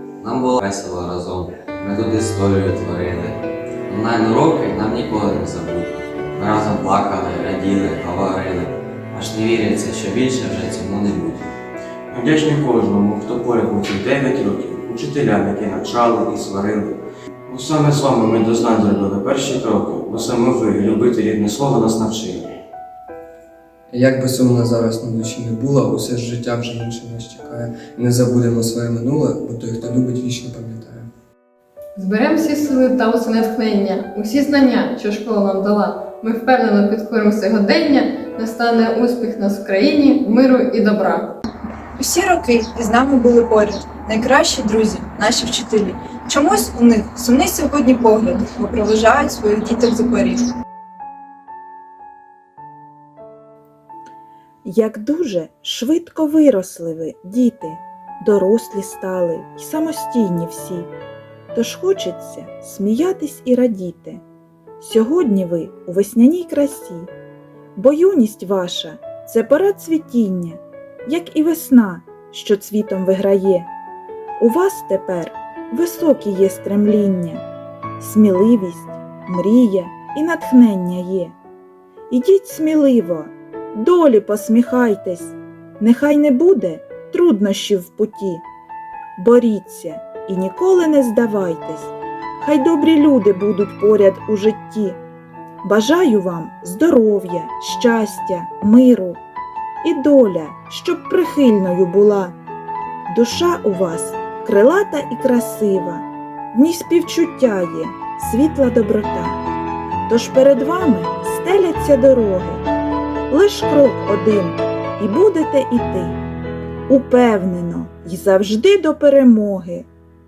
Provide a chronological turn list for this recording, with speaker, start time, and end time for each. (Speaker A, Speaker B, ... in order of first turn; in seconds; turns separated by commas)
Speaker A: 0.2-11.5, Speaker B: 12.1-22.4, Speaker C: 23.9-31.1, Speaker D: 32.0-41.3, Speaker E: 42.0-50.4, Speaker F: 54.7-60.9, Speaker F: 61.5-64.2, Speaker F: 64.8-67.1, Speaker F: 67.8-73.7, Speaker F: 74.4-77.4, Speaker F: 78.0-81.3, Speaker F: 82.1-88.4, Speaker F: 89.2-95.0, Speaker F: 95.6-99.2, Speaker F: 99.8-102.3, Speaker F: 103.1-109.4, Speaker F: 110.1-112.6, Speaker F: 113.3-116.2, Speaker F: 116.9-119.9